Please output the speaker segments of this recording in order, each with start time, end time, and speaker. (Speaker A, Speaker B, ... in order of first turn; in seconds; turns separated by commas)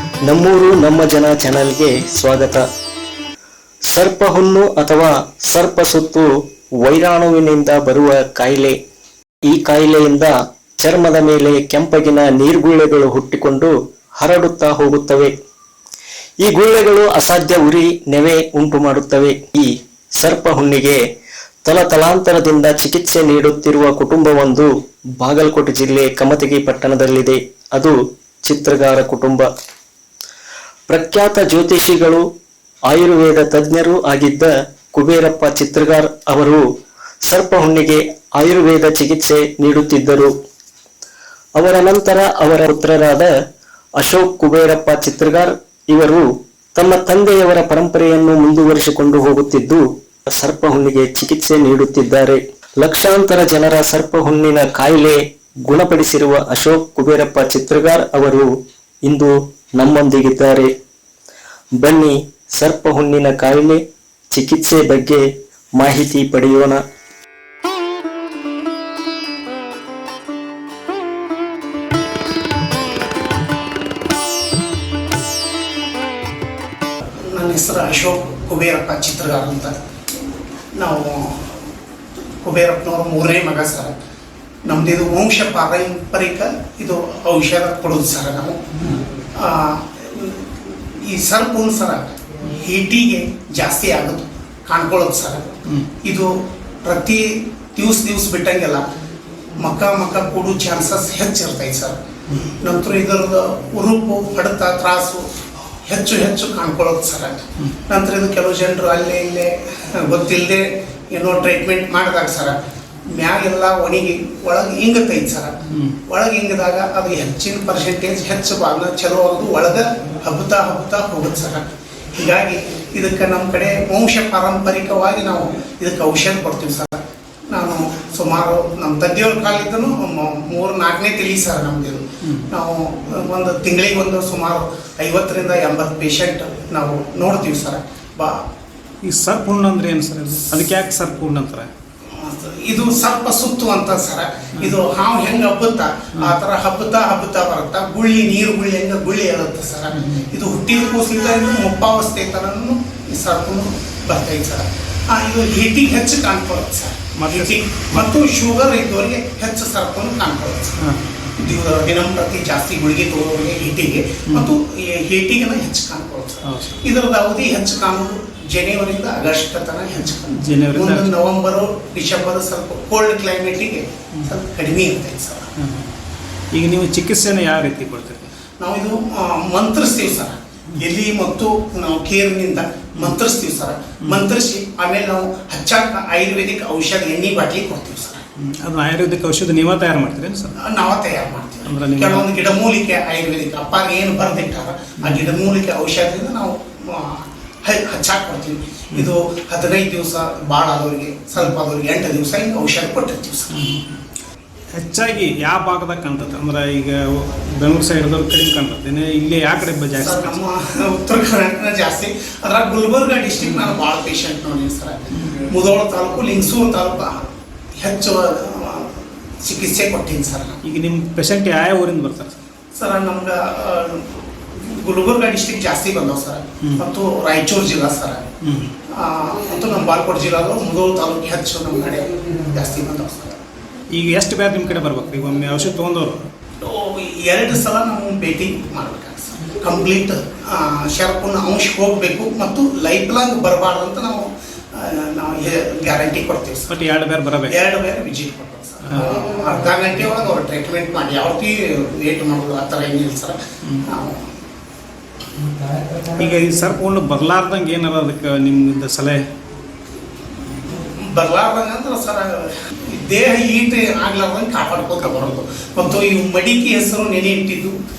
Speaker A: 0.2-2.7, Speaker A: 3.9-8.8, Speaker A: 9.4-15.4, Speaker A: 16.4-21.0, Speaker A: 21.6-29.5, Speaker A: 30.9-32.3, Speaker A: 32.9-36.6, Speaker A: 37.2-40.4, Speaker A: 41.6-43.3, Speaker A: 44.0-58.5, Speaker A: 59.0-60.7, Speaker A: 61.8-66.8, Speaker B: 77.2-79.8, Speaker B: 80.8-81.6, Speaker B: 82.2-84.0, Speaker B: 84.7-96.3, Speaker B: 96.8-98.8, Speaker B: 99.6-105.2, Speaker B: 105.9-112.6, Speaker B: 113.1-138.4, Speaker C: 115.7-116.0, Speaker C: 139.0-141.7, Speaker B: 142.2-160.8, Speaker C: 149.9-150.3, Speaker C: 157.2-158.1, Speaker C: 160.8-161.5, Speaker B: 161.4-175.5, Speaker C: 166.4-166.8, Speaker C: 170.3-171.1, Speaker C: 175.6-176.0, Speaker C: 176.5-178.3, Speaker B: 178.6-188.2, Speaker C: 188.4-190.5, Speaker B: 190.6-203.5, Speaker C: 191.7-192.3, Speaker C: 195.0-195.3, Speaker C: 203.5-204.0, Speaker C: 204.8-210.4, Speaker B: 210.0-217.2, Speaker C: 213.4-213.8, Speaker C: 215.2-215.5, Speaker B: 217.8-220.6, Speaker C: 220.7-222.4, Speaker B: 222.8-228.2, Speaker C: 228.4-228.7, Speaker B: 228.9-233.4, Speaker C: 233.9-236.3, Speaker B: 236.6-246.8, Speaker C: 246.7-247.6, Speaker B: 247.5-254.3, Speaker C: 248.9-249.3, Speaker C: 256.1-259.2, Speaker B: 260.6-267.8